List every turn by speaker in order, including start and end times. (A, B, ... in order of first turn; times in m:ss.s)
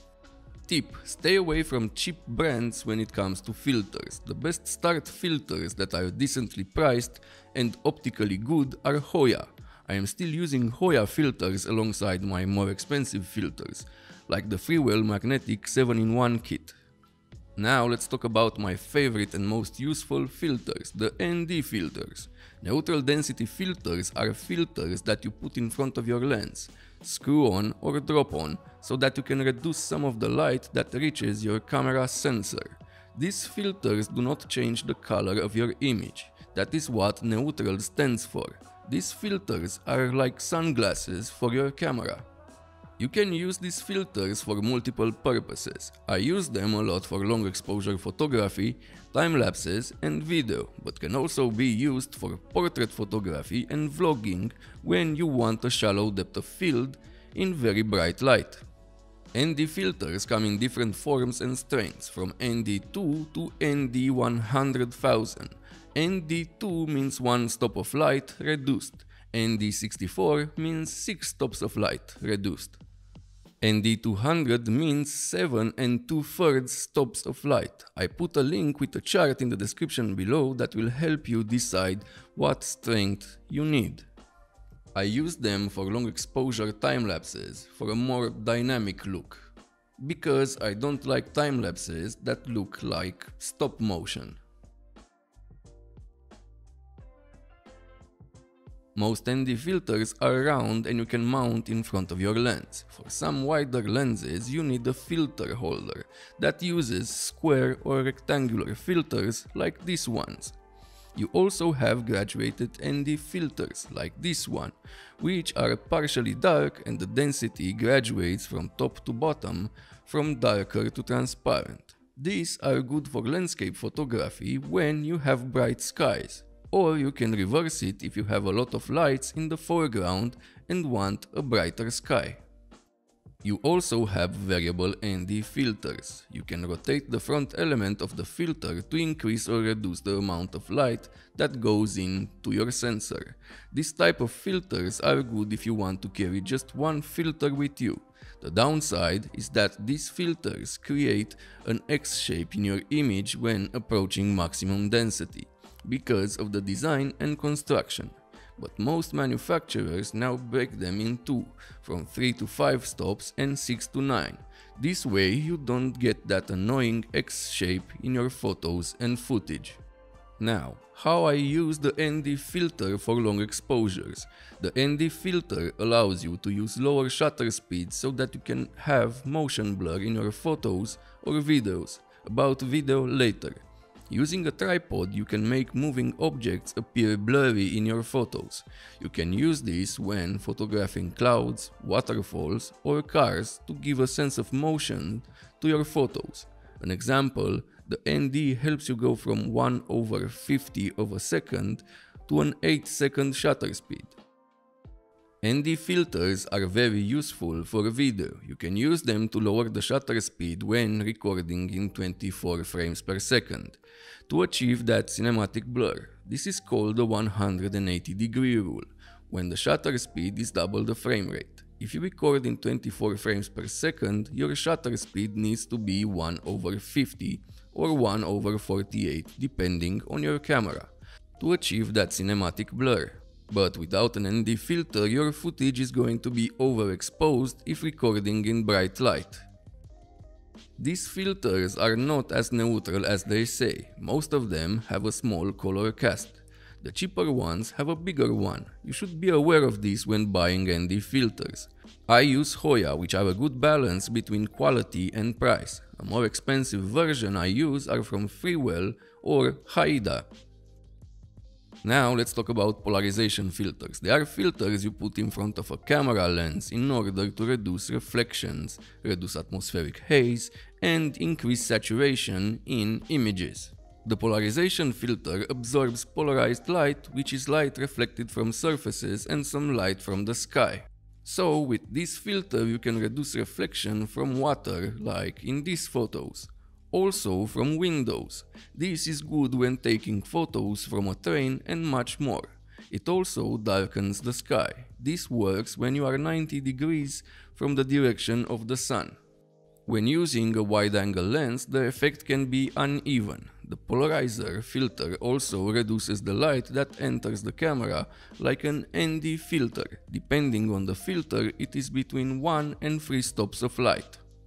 0:00.7-0:16.8 A
0:17.6-0:42.3 A
0:43.0-0:58.6 A
0:59.3-1:12.8 A
1:13.6-1:24.1 A
1:25.0-1:34.4 A
1:39.0-1:50.6 A
1:51.2-2:12.4 A
2:13.4-2:49.8 A
2:50.4-3:24.2 A
3:25.4-3:59.5 A
4:00.8-4:20.3 A
4:21.8-4:59.2 A
4:59.9-5:14.2 A